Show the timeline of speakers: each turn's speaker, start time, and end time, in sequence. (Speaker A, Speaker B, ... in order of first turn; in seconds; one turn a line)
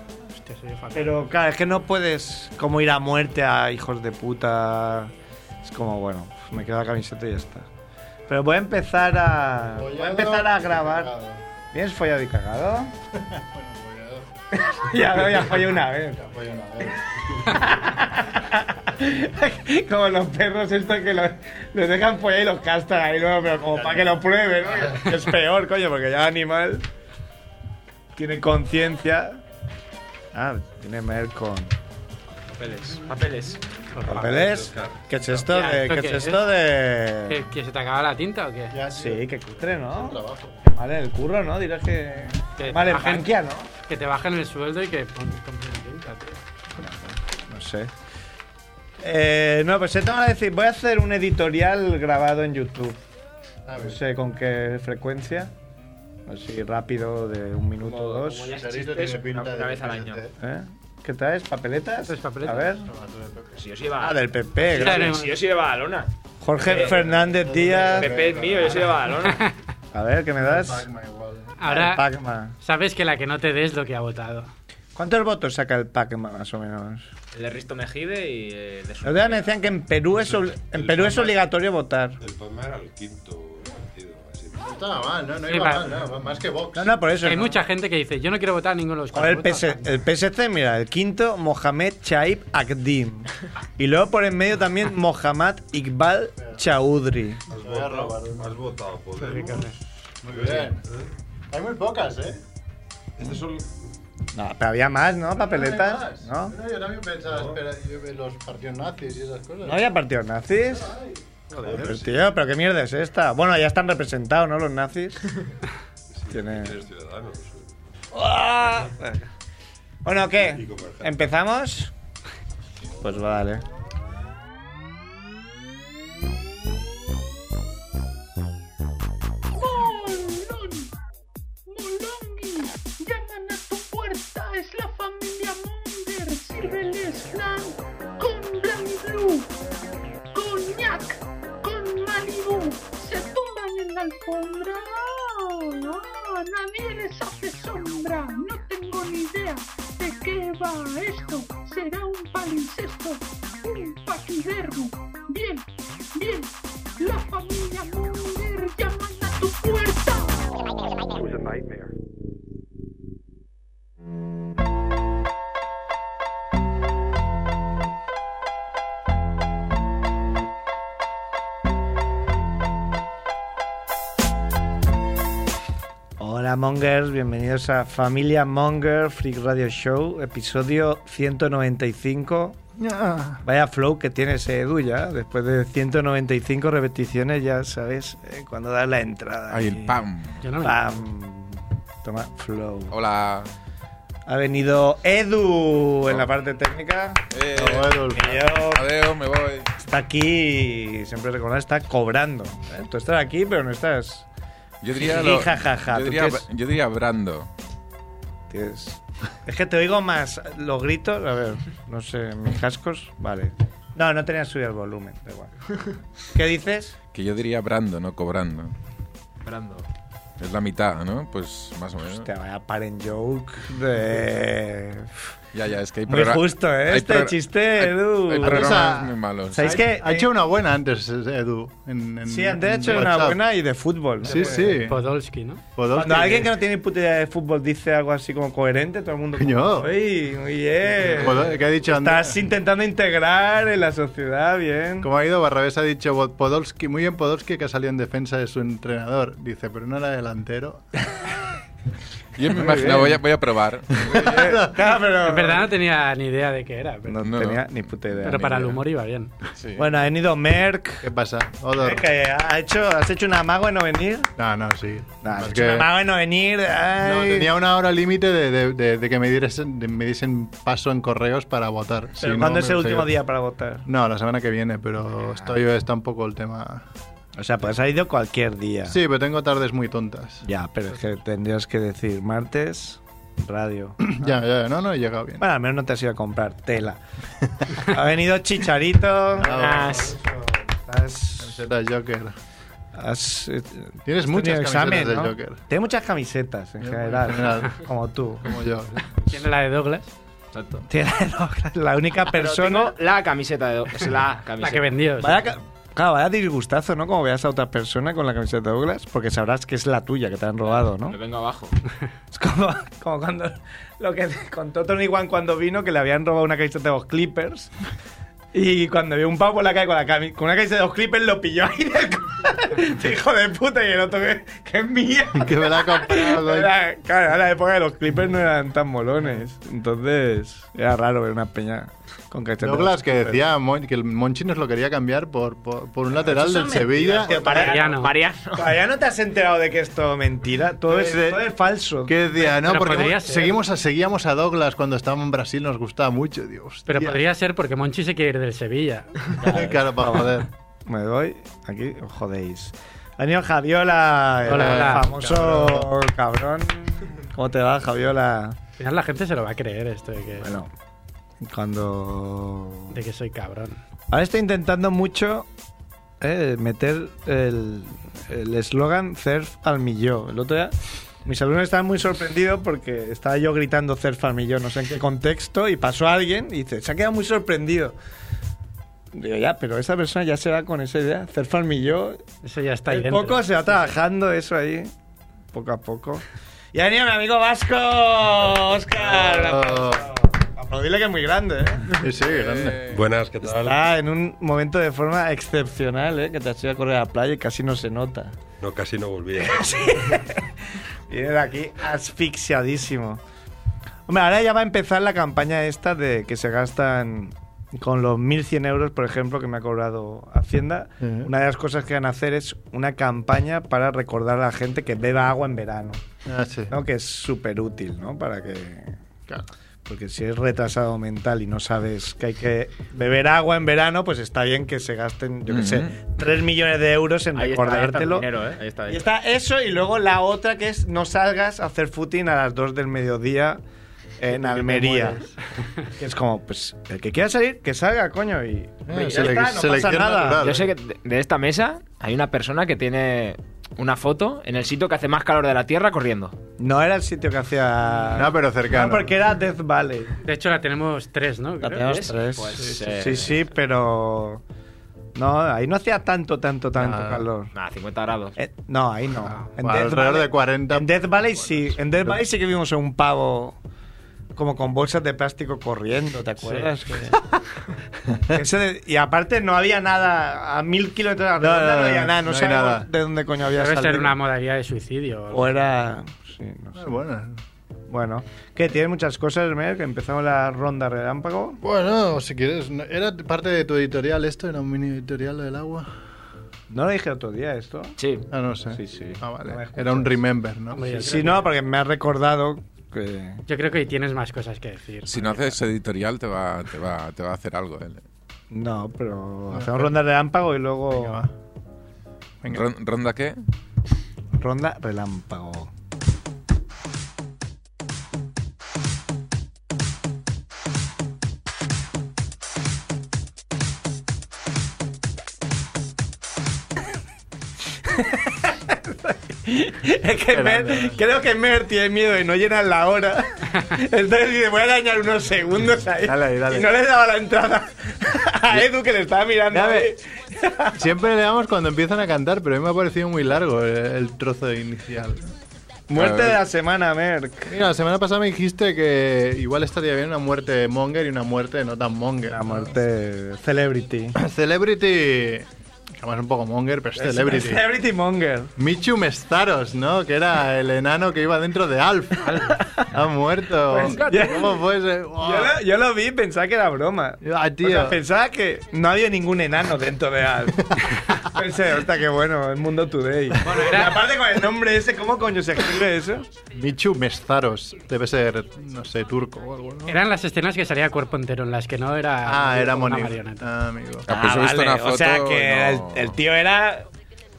Speaker A: 0.3-1.2
Speaker B: 0.9-5.1
Speaker B: 5.6-7.7
Speaker B: 8.3-11.1
Speaker C: 9.7-11.4
Speaker B: 11.7-12.9
Speaker C: 13.2-17.5
Speaker B: 14.5-16.2
Speaker B: 17.4-26.9
Speaker C: 23.8-24.2
Speaker C: 24.8-25.1
Speaker B: 28.1-29.4
Speaker B: 30.3-31.8
Speaker D: 32.6-33.6
Speaker A: 34.0-34.6
Speaker B: 34.0-37.4
Speaker E: 34.2-35.0
Speaker A: 35.5-36.4
Speaker A: 37.3-38.8
Speaker C: 38.7-40.6
Speaker B: 38.9-43.7
Speaker A: 42.6-43.3
Speaker A: 43.8-46.4
Speaker B: 46.8-47.9
Speaker B: 49.0-53.0
Speaker C: 53.7-54.0
Speaker B: 53.8-55.5
Speaker B: 56.3-58.5
Speaker D: 57.8-60.2
Speaker C: 58.5-60.3
Speaker B: 60.4-62.9
Speaker A: 62.0-62.7
Speaker C: 62.9-63.6
Speaker D: 63.5-67.0
Speaker B: 64.0-65.2
Speaker A: 64.7-65.4
Speaker B: 66.4-68.1
Speaker C: 66.6-69.2
Speaker D: 67.9-69.4
Speaker A: 69.3-69.5
Speaker B: 69.9-70.8
Speaker C: 70.4-71.5
Speaker A: 71.6-72.0
Speaker B: 71.7-72.5
Speaker A: 72.6-74.5
Speaker B: 75.0-77.1
Speaker D: 77.3-79.6
Speaker B: 79.0-82.2
Speaker E: 80.2-81.3
Speaker E: 82.2-84.8
Speaker C: 84.6-87.0
Speaker A: 85.5-86.0
Speaker B: 86.7-87.6
Speaker A: 87.2-90.0
Speaker B: 89.1-97.4
Speaker E: 97.5-99.7
Speaker C: 97.6-98.6
Speaker C: 100.2-100.8
Speaker E: 100.3-101.0
Speaker C: 101.5-102.4
Speaker E: 103.2-103.7
Speaker B: 104.3-106.5
Speaker C: 105.3-109.8
Speaker E: 107.3-107.6
Speaker B: 109.6-110.9
Speaker C: 110.6-112.2
Speaker B: 111.6-115.2
Speaker E: 116.2-117.7
Speaker B: 116.3-116.8
Speaker B: 118.1-119.2
Speaker B: 120.0-121.9
Speaker E: 120.5-121.1
Speaker B: 123.0-123.6
Speaker F: 129.5-130.9
Speaker F: 131.7-139.5
Speaker F: 140.3-160.4
Speaker B: 176.2-182.6
Speaker C: 182.8-183.4
Speaker B: 183.4-189.9
Speaker G: 189.5-190.4
Speaker A: 190.4-190.8
Speaker B: 190.6-192.9
Speaker G: 192.9-193.5
Speaker B: 194.3-198.8
Speaker G: 197.3-199.7
Speaker C: 197.5-198.4
Speaker B: 199.7-204.2
Speaker G: 204.8-207.5
Speaker B: 205.0-206.4
Speaker B: 208.5-215.5
Speaker B: 216.3-216.9
Speaker G: 217.1-218.7
Speaker D: 219.4-219.8
Speaker G: 220.4-222.3
Speaker B: 222.1-225.2
Speaker G: 225.5-229.8
Speaker B: 226.1-229.0
Speaker C: 228.3-233.4
Speaker B: 229.5-230.3
Speaker B: 232.3-234.7
Speaker C: 234.2-235.0
Speaker A: 234.4-235.6
Speaker C: 235.8-236.5
Speaker B: 235.9-245.1
Speaker C: 239.4-239.9
Speaker C: 241.0-242.4
Speaker C: 245.0-250.8
Speaker G: 252.4-254.5
Speaker C: 252.5-253.2
Speaker C: 254.0-254.8
Speaker B: 254.1-255.7
Speaker A: 255.2-257.2
Speaker B: 257.1-258.7
Speaker G: 257.2-257.7
Speaker A: 258.2-259.4
Speaker G: 258.4-258.7
Speaker G: 259.6-259.9
Speaker B: 259.8-261.1
Speaker C: 261.0-262.1
Speaker B: 261.8-264.3
Speaker C: 264.4-265.9
Speaker B: 265.2-267.5
Speaker C: 267.0-273.1
Speaker B: 272.2-273.8
Speaker C: 273.9-276.8
Speaker B: 277.4-279.0
Speaker C: 278.9-280.4
Speaker B: 280.4-284.2
Speaker C: 284.0-285.4
Speaker B: 285.4-287.0
Speaker C: 287.4-287.8
Speaker B: 287.8-291.6
Speaker C: 289.4-290.1
Speaker D: 289.4-290.1
Speaker C: 291.4-292.3
Speaker B: 292.9-298.5
Speaker C: 294.1-295.6
Speaker C: 296.8-297.8
Speaker C: 298.4-299.4
Speaker A: 299.3-300.1
Speaker D: 300.5-300.8
Speaker B: 300.9-302.9
Speaker D: 302.3-304.9
Speaker A: 304.6-305.4
Speaker B: 305.2-311.1
Speaker D: 311.0-311.7
Speaker B: 312.3-317.7
Speaker B: 318.5-333.4
Speaker C: 325.3-326.7
Speaker C: 332.6-337.6
Speaker B: 336.2-338.0
Speaker D: 337.2-338.7
Speaker A: 337.6-338.1
Speaker B: 338.5-342.2
Speaker C: 340.9-341.5
Speaker C: 342.0-347.2
Speaker A: 342.4-343.6
Speaker A: 346.9-349.3
Speaker C: 349.4-350.5
Speaker B: 350.0-358.6
Speaker C: 354.4-355.9
Speaker A: 354.5-355.1
Speaker A: 358.8-360.5
Speaker B: 360.4-360.7
Speaker B: 361.4-362.9
Speaker A: 362.9-363.8
Speaker B: 364.1-365.5
Speaker B: 366.2-377.9
Speaker B: 379.1-382.2
Speaker A: 382.4-383.5
Speaker B: 382.9-384.9
Speaker B: 385.5-392.0
Speaker C: 389.0-390.1
Speaker C: 392.0-392.8
Speaker G: 392.2-393.0
Speaker E: 392.9-393.9
Speaker B: 393.4-398.3
Speaker E: 398.6-400.0
Speaker B: 399.4-400.5
Speaker B: 401.1-403.2
Speaker B: 404.1-416.0
Speaker C: 411.0-411.3
Speaker C: 416.2-416.7
Speaker B: 416.7-419.0
Speaker B: 419.9-428.3
Speaker G: 425.5-425.9
Speaker D: 427.4-429.0
Speaker B: 428.9-433.6
Speaker B: 434.2-435.2
Speaker C: 434.2-435.4
Speaker B: 436.0-440.4
Speaker C: 438.9-440.7
Speaker D: 440.4-446.4
Speaker B: 446.6-450.1
Speaker C: 448.1-449.1
Speaker A: 450.2-452.2
Speaker B: 451.6-454.4
Speaker D: 451.8-453.4
Speaker C: 452.6-452.9
Speaker B: 455.1-457.5
Speaker C: 456.8-457.3
Speaker D: 457.5-458.3
Speaker B: 458.4-463.6
Speaker C: 459.3-460.9
Speaker B: 464.4-467.2
Speaker B: 468.3-474.1
Speaker C: 471.4-472.9
Speaker A: 473.6-475.5
Speaker B: 475.3-477.0
Speaker C: 476.7-477.4
Speaker B: 477.9-481.6
Speaker C: 481.6-485.9
Speaker B: 486.7-487.9
Speaker D: 488.0-488.2
Speaker C: 488.3-491.1
Speaker B: 488.7-490.2
Speaker A: 490.7-491.4
Speaker B: 490.9-493.4
Speaker A: 493.5-495.5
Speaker G: 495.0-498.0
Speaker B: 498.5-501.2
Speaker C: 499.5-499.9
Speaker C: 500.9-501.3
Speaker C: 502.4-502.7
Speaker G: 502.5-503.4
Speaker B: 504.3-505.7
Speaker B: 517.9-530.8
Speaker C: 520.3-521.0
Speaker C: 526.0-526.7
Speaker C: 529.5-529.9
Speaker C: 530.7-535.3
Speaker B: 535.9-537.5
Speaker G: 535.9-536.4
Speaker C: 537.5-542.8
Speaker B: 542.3-544.1
Speaker C: 544.1-547.7
Speaker B: 547.0-548.5
Speaker C: 548.6-555.5
Speaker B: 552.6-552.9
Speaker B: 553.7-554.6
Speaker B: 555.2-566.3
Speaker C: 557.2-558.0
Speaker C: 560.6-561.0
Speaker A: 563.4-564.0
Speaker C: 566.5-570.0
Speaker A: 569.9-573.5
Speaker C: 572.2-574.1
Speaker G: 574.1-576.1
Speaker B: 574.1-576.9